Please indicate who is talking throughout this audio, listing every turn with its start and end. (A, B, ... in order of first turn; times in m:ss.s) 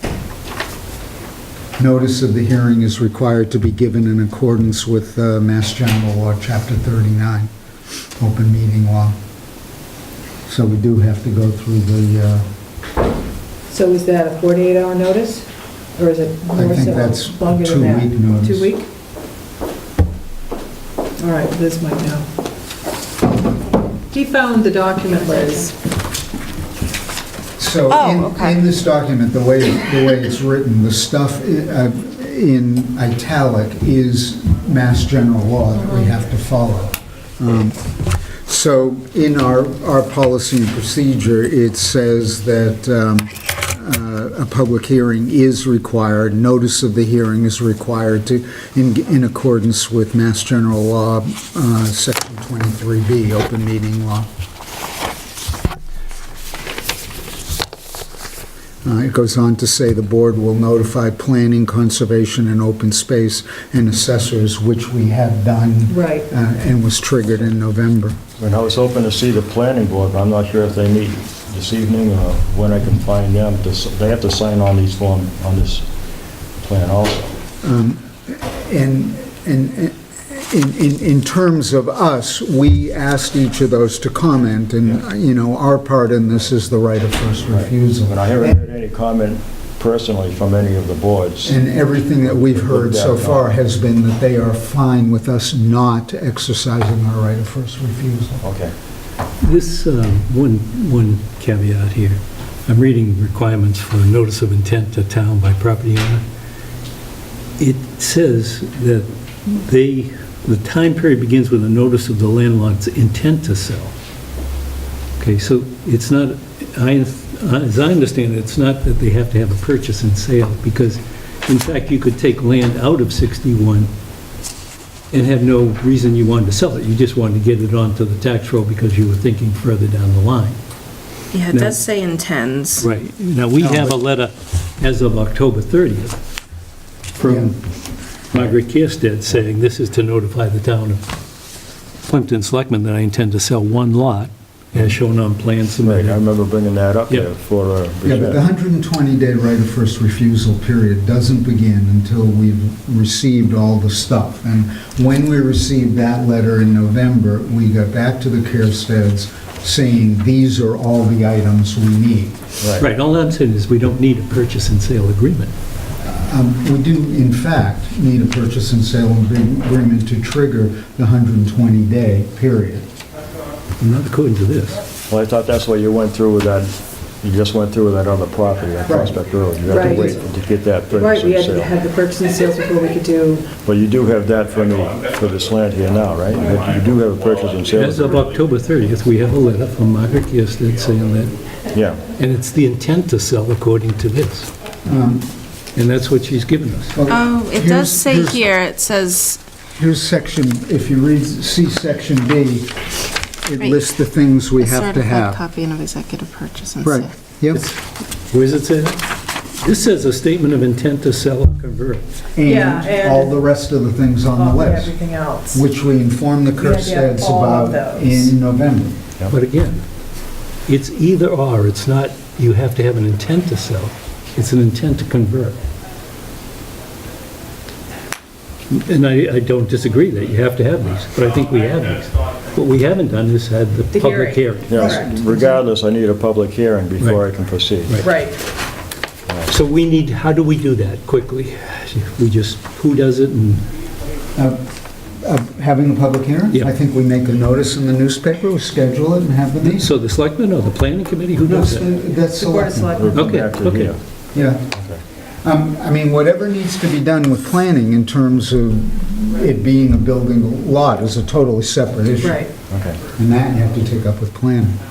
0:01.8-0:07.5 A
0:08.2-0:09.2 A
0:10.5-0:12.5 A
0:13.7-0:18.9 B
0:16.5-0:18.7 A
0:21.2-0:22.3 B
0:24.1-0:25.7 B
0:27.6-0:37.9 A
0:27.9-0:28.6 C
0:38.4-0:54.3 A
0:58.8-1:08.2 A
1:05.9-1:06.3 B
1:08.4-1:15.9 D
1:16.6-1:17.3 D
1:17.6-1:28.6 A
1:27.5-1:33.5 D
1:31.4-1:38.4 A
1:38.4-1:38.7 D
1:39.4-1:46.2 E
1:47.6-1:54.0 E
1:55.2-2:03.9 E
2:05.1-2:10.6 E
2:11.3-2:12.8 C
2:11.5-2:11.8 E
2:12.8-2:16.2 E
2:13.6-2:13.9 A
2:17.2-2:17.6 E
2:17.2-2:17.5 A
2:18.3-2:21.0 E
2:22.1-2:26.2 E
2:25.8-2:28.4 D
2:28.0-2:42.4 A
2:42.6-2:42.9 D
2:42.8-2:45.5 E
2:46.0-2:52.9 A
2:53.8-2:54.8 E
2:55.1-3:01.7 D
2:58.8-2:59.2 A
2:59.6-3:00.2 B
2:59.7-3:00.2 A
3:00.9-3:03.5 B
3:03.6-3:08.3 D
3:07.7-3:11.4 E
3:11.7-3:12.0 D
3:12.2-3:14.5 E
3:14.8-3:15.3 A
3:15.8-3:17.0 E
3:16.9-3:18.5 A
3:17.1-3:19.4 C
3:19.8-3:25.4 A
3:24.6-3:27.1 C
3:26.8-3:27.6 A
3:27.5-3:29.0 E
3:29.6-3:32.1 E
3:32.3-3:35.0 A
3:32.4-3:33.4 B
3:34.3-3:35.6 B
3:35.5-3:39.0 A
3:36.6-3:38.3 B
3:39.3-3:39.8 E
3:40.7-3:45.6 E
3:48.7-3:54.9 E
3:53.9-3:55.0 B
3:54.7-3:58.1 D
3:54.8-3:55.6 A
3:57.8-3:58.1 E
3:58.0-3:58.4 B
3:59.3-3:59.5 D
3:59.5-4:03.6 E
4:04.4-4:04.6 A
4:05.2-4:09.9 A
4:09.6-4:11.9 E
4:11.4-4:13.2 A
4:12.4-4:13.3 B
4:13.0-4:14.0 D
4:13.1-4:14.0 E
4:14.3-4:14.7 A
4:14.7-4:15.0 D
4:15.4-4:22.4 A
4:22.2-4:22.5 B
4:22.7-4:23.0 D
4:23.1-4:24.8 A